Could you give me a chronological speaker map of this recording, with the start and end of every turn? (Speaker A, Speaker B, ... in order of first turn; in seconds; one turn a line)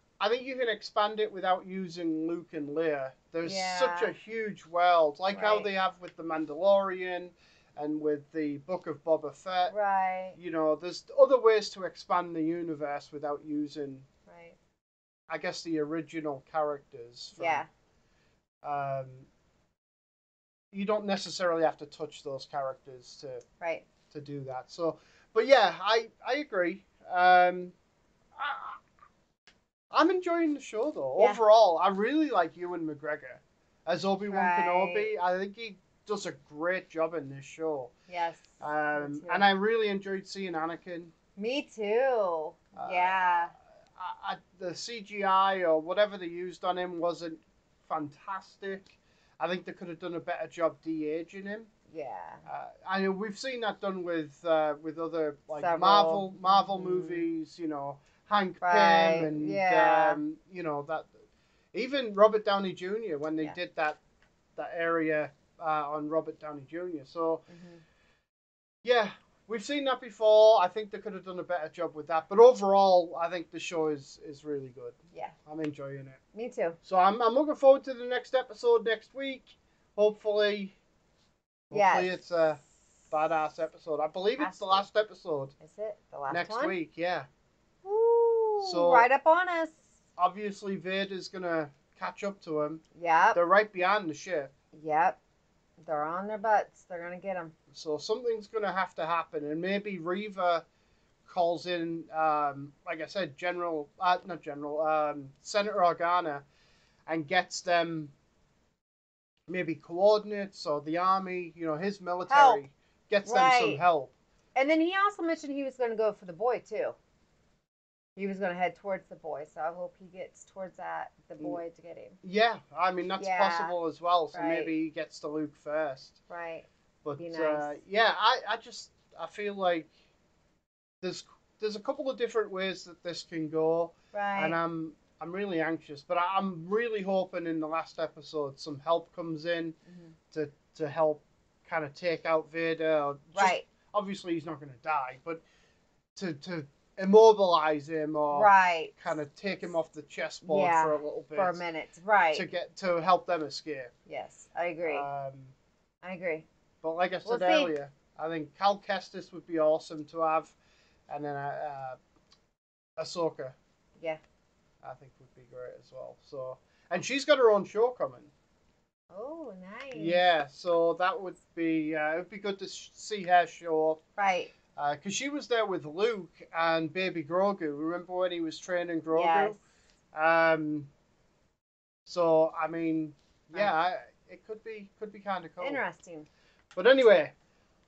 Speaker A: 0.2-9.7
Speaker B: 3.4-4.1
Speaker B: 5.3-5.7
Speaker B: 9.7-10.4
Speaker A: 10.4-14.1
Speaker B: 14.3-14.6
Speaker A: 15.3-17.6
Speaker B: 17.4-17.7
Speaker A: 18.6-19.3
Speaker A: 20.7-23.4
Speaker B: 23.6-23.9
Speaker A: 24.1-27.7
Speaker A: 28.4-28.8
Speaker A: 29.9-37.9
Speaker B: 31.1-31.4
Speaker B: 34.3-35.1
Speaker B: 38.1-39.5
Speaker A: 38.6-41.1
Speaker B: 41.4-43.5
Speaker A: 42.8-43.4
Speaker A: 44.0-51.7
Speaker B: 51.9-52.5
Speaker A: 52.5-61.2
Speaker B: 55.6-57.3
Speaker B: 58.6-60.2
Speaker A: 61.7-64.0
Speaker A: 64.5-67.4
Speaker B: 67.5-67.8
Speaker A: 68.8-76.2
Speaker B: 76.3-76.8
Speaker A: 76.8-80.8
Speaker A: 81.7-85.5
Speaker B: 81.7-82.2
Speaker B: 84.4-84.9
Speaker B: 85.6-86.8
Speaker A: 86.3-87.3
Speaker B: 87.8-89.8
Speaker A: 88.6-89.1
Speaker A: 90.2-92.8
Speaker B: 92.9-93.4
Speaker A: 93.3-94.5
Speaker B: 94.7-95.2
Speaker B: 95.8-97.5
Speaker A: 97.7-100.6
Speaker A: 101.2-106.5
Speaker A: 107.1-108.1
Speaker A: 109.5-114.1
Speaker B: 112.3-112.6
Speaker B: 113.2-113.8
Speaker B: 114.5-117.0
Speaker B: 118.2-122.2
Speaker A: 122.2-126.2
Speaker B: 123.2-123.8
Speaker B: 124.3-124.7
Speaker B: 126.3-127.8
Speaker A: 127.0-129.9
Speaker A: 131.0-139.8
Speaker B: 134.1-134.6
Speaker B: 139.9-140.1
Speaker A: 140.3-145.4
Speaker B: 143.3-143.7
Speaker A: 146.1-151.6
Speaker B: 148.3-149.2
Speaker B: 150.4-152.5
Speaker A: 152.3-153.9
Speaker B: 154.1-155.1
Speaker A: 154.8-155.5
Speaker B: 156.0-156.5
Speaker A: 156.8-160.6
Speaker B: 157.2-157.8
Speaker A: 161.1-162.0
Speaker A: 163.0-163.5
Speaker A: 164.8-168.3
Speaker B: 169.1-170.3
Speaker A: 169.9-174.0
Speaker B: 174.2-174.5
Speaker A: 174.8-179.6
Speaker B: 179.1-179.6
Speaker A: 180.1-180.9
Speaker A: 182.1-185.8
Speaker B: 185.6-186.3
Speaker A: 186.7-187.3